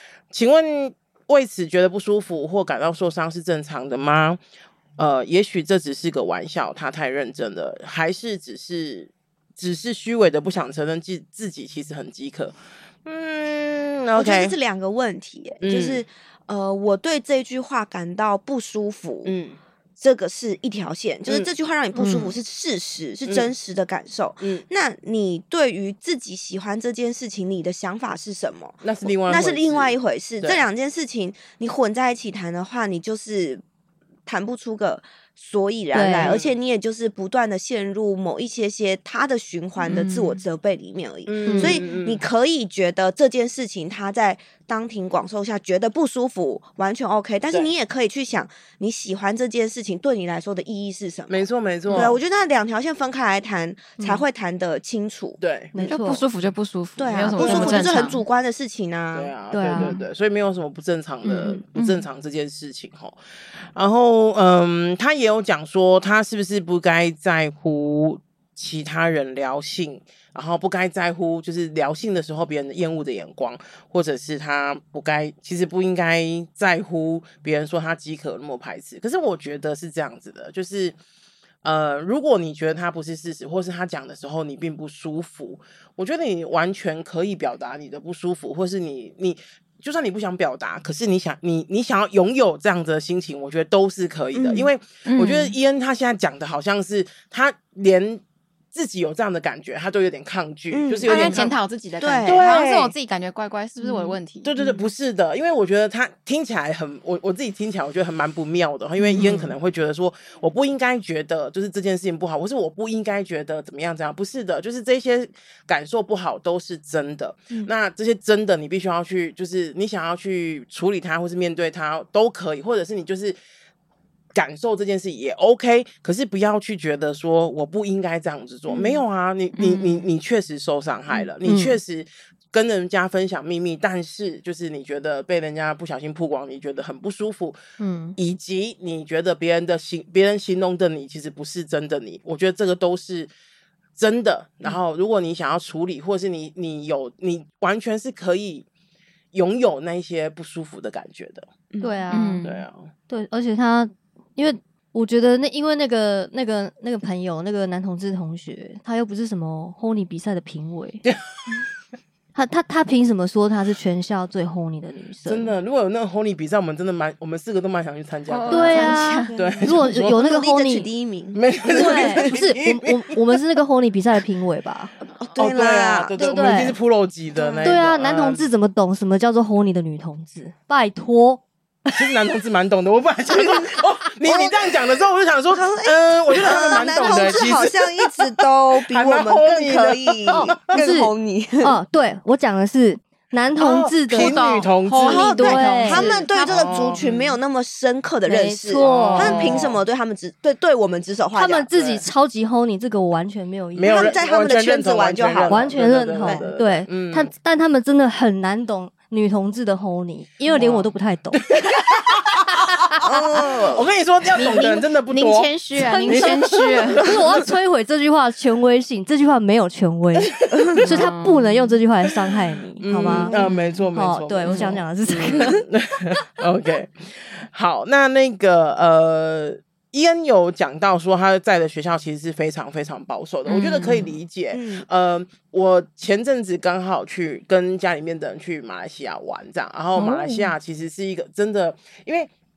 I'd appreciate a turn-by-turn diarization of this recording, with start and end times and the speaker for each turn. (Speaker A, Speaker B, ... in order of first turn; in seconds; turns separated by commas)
Speaker A: 0.3-4.4, Speaker A: 5.0-14.5, Speaker B: 14.2-19.3, Speaker A: 15.6-16.0, Speaker A: 19.2-19.6, Speaker B: 20.0-33.6, Speaker C: 22.0-22.4, Speaker A: 23.2-23.5, Speaker A: 28.8-30.6, Speaker B: 34.3-55.4, Speaker C: 35.9-36.4, Speaker A: 36.2-36.5, Speaker D: 39.8-40.4, Speaker A: 41.3-42.3, Speaker C: 41.5-41.8, Speaker A: 51.3-52.2, Speaker C: 54.0-54.2, Speaker A: 55.4-55.8, Speaker C: 55.7-56.2, Speaker D: 55.9-58.2, Speaker B: 57.0-59.3, Speaker A: 57.4-58.0, Speaker A: 59.1-81.0, Speaker C: 59.5-60.0, Speaker D: 59.8-60.0, Speaker D: 61.2-62.1, Speaker A: 81.6-98.2, Speaker B: 94.3-94.7, Speaker D: 95.0-95.6, Speaker A: 98.7-101.5, Speaker B: 100.7-102.5, Speaker D: 101.1-104.5, Speaker A: 102.2-103.0, Speaker B: 103.8-104.8, Speaker A: 104.4-123.4, Speaker C: 109.1-109.5, Speaker A: 124.3-137.6, Speaker B: 128.7-129.0, Speaker D: 129.6-130.1, Speaker C: 131.4-131.8, Speaker C: 137.8-138.2, Speaker A: 138.2-143.3, Speaker A: 144.0-148.7, Speaker A: 149.3-151.5, Speaker B: 151.7-152.0, Speaker C: 151.8-152.4, Speaker D: 152.1-152.6, Speaker A: 152.4-152.9, Speaker C: 153.1-161.0, Speaker C: 162.3-165.5, Speaker A: 165.3-170.2, Speaker D: 168.3-169.3, Speaker C: 168.5-170.9, Speaker B: 168.9-172.3, Speaker A: 171.3-173.2, Speaker C: 171.7-174.9, Speaker B: 175.2-176.2, Speaker A: 175.4-178.5, Speaker C: 176.2-176.8, Speaker B: 177.3-177.8, Speaker C: 177.6-181.9, Speaker A: 181.9-190.8, Speaker B: 183.3-184.7, Speaker B: 185.5-191.8, Speaker C: 190.3-194.4, Speaker A: 193.6-195.3, Speaker D: 194.1-196.9, Speaker B: 195.0-201.7, Speaker C: 195.2-196.1, Speaker A: 196.0-197.4, Speaker C: 198.3-199.6, Speaker A: 198.8-199.8, Speaker C: 201.3-204.2, Speaker A: 201.7-202.1, Speaker A: 203.8-207.3, Speaker B: 203.8-206.5, Speaker C: 205.5-211.4, Speaker A: 210.5-210.9, Speaker A: 211.5-212.9, Speaker B: 213.0-213.8, Speaker A: 213.6-217.5, Speaker D: 214.4-217.1, Speaker C: 215.9-216.3, Speaker C: 217.0-223.3, Speaker A: 220.4-221.1, Speaker B: 220.5-220.8, Speaker D: 220.8-221.8, Speaker A: 222.8-242.3, Speaker B: 223.1-223.5, Speaker D: 223.3-223.8, Speaker C: 223.9-225.6, Speaker D: 224.5-224.7, Speaker D: 233.5-234.2, Speaker B: 234.5-234.9, Speaker D: 239.9-240.5